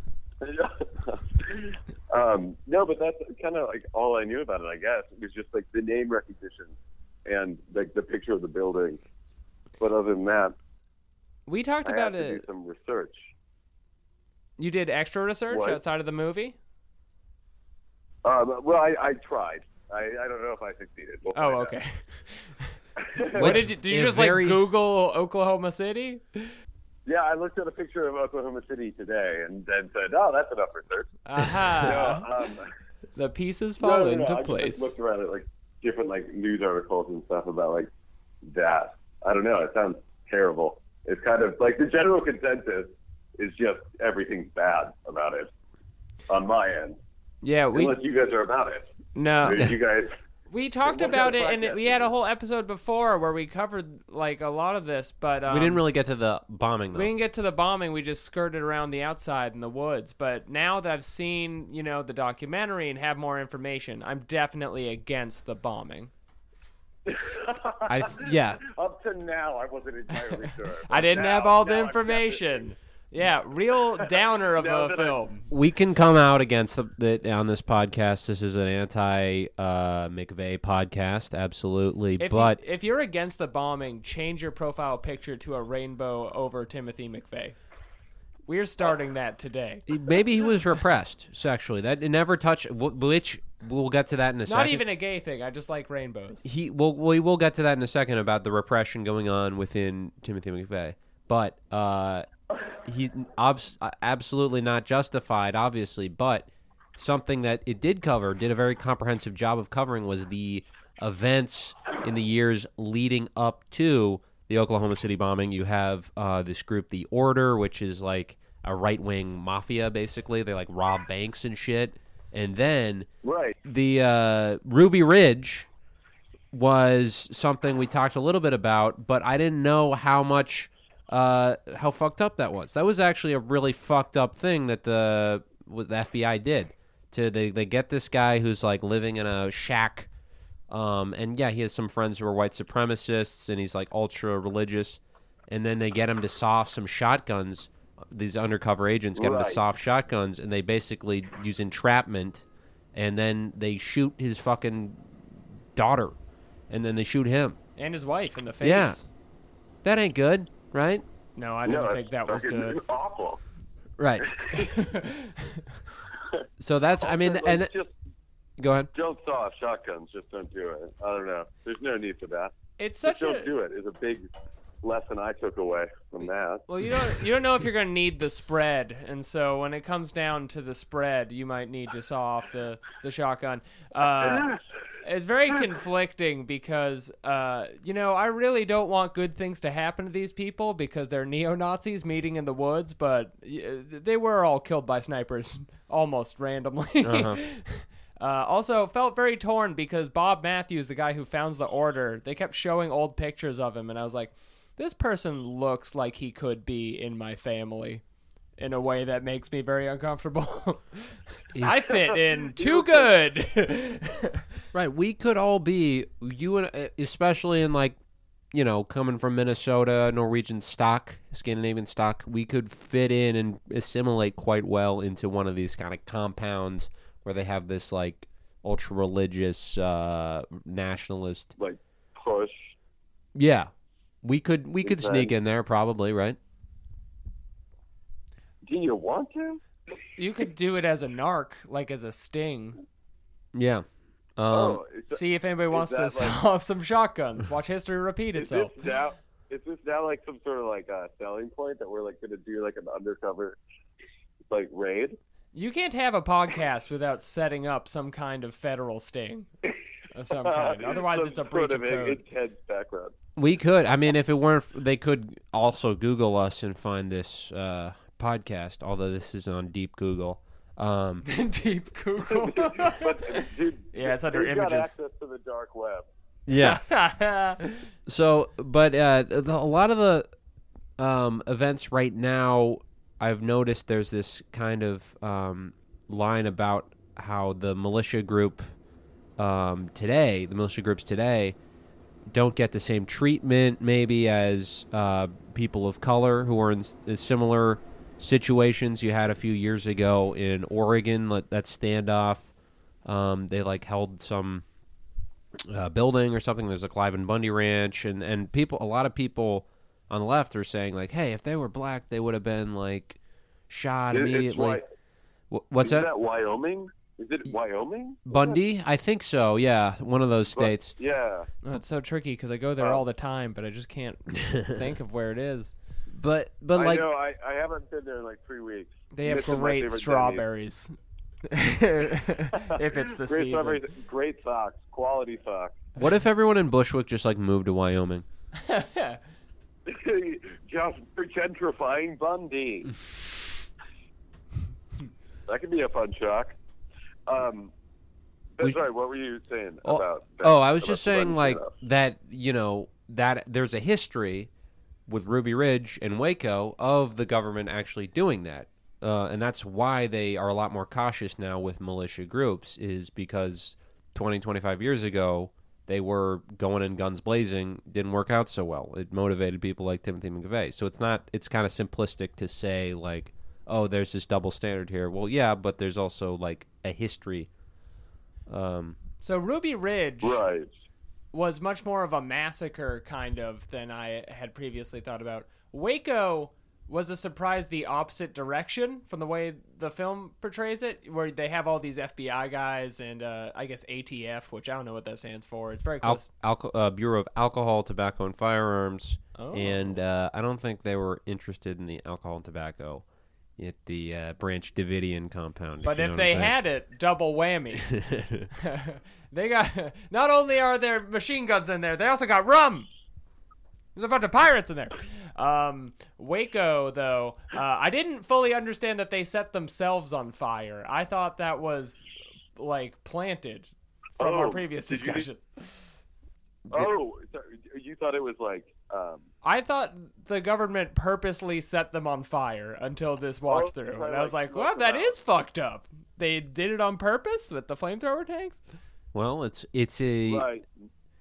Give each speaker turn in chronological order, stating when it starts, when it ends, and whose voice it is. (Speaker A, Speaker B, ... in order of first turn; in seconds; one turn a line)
Speaker A: 0.4-6.7
Speaker A: 7.3-9.0
Speaker A: 9.8-10.6
Speaker B: 11.5-12.4
Speaker A: 11.8-13.3
Speaker B: 14.6-16.6
Speaker A: 15.5-15.8
Speaker A: 18.2-21.8
Speaker B: 21.4-22.8
Speaker A: 23.0-23.6
Speaker C: 23.4-24.6
Speaker B: 23.4-26.5
Speaker A: 27.1-31.2
Speaker B: 31.3-32.3
Speaker A: 31.8-32.7
Speaker B: 33.2-35.0
Speaker A: 33.8-37.9
Speaker A: 38.4-45.5
Speaker A: 46.3-47.0
Speaker B: 47.4-48.0
Speaker A: 47.8-48.9
Speaker B: 49.1-49.7
Speaker A: 49.4-50.1
Speaker B: 50.5-55.8
Speaker A: 50.9-52.1
Speaker C: 55.5-57.1
Speaker B: 56.9-66.1
Speaker A: 67.1-72.7
Speaker C: 67.9-68.6
Speaker B: 70.3-75.5
Speaker A: 74.1-75.2
Speaker C: 75.5-82.6
Speaker B: 82.2-87.6
Speaker B: 88.5-89.8
Speaker C: 89.9-94.8
Speaker B: 94.5-96.5
Speaker C: 96.4-102.3
Speaker C: 102.8-123.1
Speaker A: 123.2-123.6
Speaker C: 123.6-125.7
Speaker C: 126.5-140.1
Speaker C: 140.7-156.2
Speaker A: 149.2-149.6
Speaker C: 156.7-157.6
Speaker B: 157.8-159.1
Speaker C: 158.6-159.0
Speaker C: 159.8-161.0
Speaker B: 161.4-162.8
Speaker A: 161.7-163.4
Speaker C: 164.0-164.3
Speaker A: 164.2-164.7
Speaker B: 164.5-165.8
Speaker C: 166.6-167.7
Speaker A: 167.0-167.9
Speaker C: 168.6-168.9
Speaker A: 168.9-174.3
Speaker B: 172.8-173.5
Speaker A: 174.8-176.7
Speaker B: 176.7-184.5
Speaker A: 184.2-184.6
Speaker B: 185.0-208.0
Speaker C: 197.0-197.4
Speaker B: 208.6-214.4
Speaker C: 211.5-211.8
Speaker A: 211.9-213.1
Speaker C: 214.7-218.0
Speaker C: 218.5-231.5
Speaker A: 231.6-232.7
Speaker C: 233.4-233.7
Speaker C: 234.2-236.4
Speaker A: 234.8-235.3
Speaker A: 238.6-239.6
Speaker B: 240.2-242.8
Speaker C: 243.6-243.8
Speaker C: 244.4-244.8
Speaker A: 244.5-245.2
Speaker B: 245.1-248.8
Speaker A: 245.7-246.4
Speaker A: 248.4-253.6
Speaker A: 254.5-255.2
Speaker B: 255.5-259.5
Speaker B: 260.1-262.2
Speaker A: 260.3-263.1
Speaker C: 263.4-271.2
Speaker B: 271.2-274.9
Speaker A: 272.3-276.1
Speaker C: 276.5-276.8
Speaker B: 276.6-277.9
Speaker C: 278.1-280.3
Speaker C: 281.0-288.6
Speaker C: 289.4-291.6
Speaker C: 292.3-302.5
Speaker C: 303.1-304.6
Speaker C: 305.6-314.8
Speaker A: 314.1-314.9
Speaker C: 315.5-316.1
Speaker A: 315.8-318.6
Speaker C: 318.3-321.0
Speaker A: 320.5-321.5
Speaker B: 321.6-325.7
Speaker C: 324.4-324.7
Speaker C: 326.1-327.0
Speaker A: 326.8-330.4
Speaker B: 329.1-331.0
Speaker B: 331.5-333.8
Speaker A: 332.6-335.8
Speaker C: 336.0-338.2
Speaker B: 338.6-339.2
Speaker A: 339.9-342.9
Speaker A: 345.5-346.6
Speaker A: 347.3-347.7
Speaker A: 348.6-351.7
Speaker C: 349.9-354.5
Speaker C: 355.1-377.5
Speaker C: 378.5-379.0
Speaker B: 379.2-380.4
Speaker A: 380.2-380.7
Speaker B: 381.3-396.3
Speaker C: 396.0-403.1
Speaker B: 399.4-399.9
Speaker C: 403.6-406.5
Speaker B: 405.8-407.9
Speaker C: 407.9-408.5
Speaker B: 408.5-412.9
Speaker B: 413.9-425.7
Speaker A: 424.2-425.2
Speaker A: 426.7-429.2
Speaker B: 429.4-438.6
Speaker A: 433.5-435.2
Speaker C: 439.1-440.5
Speaker A: 440.3-440.6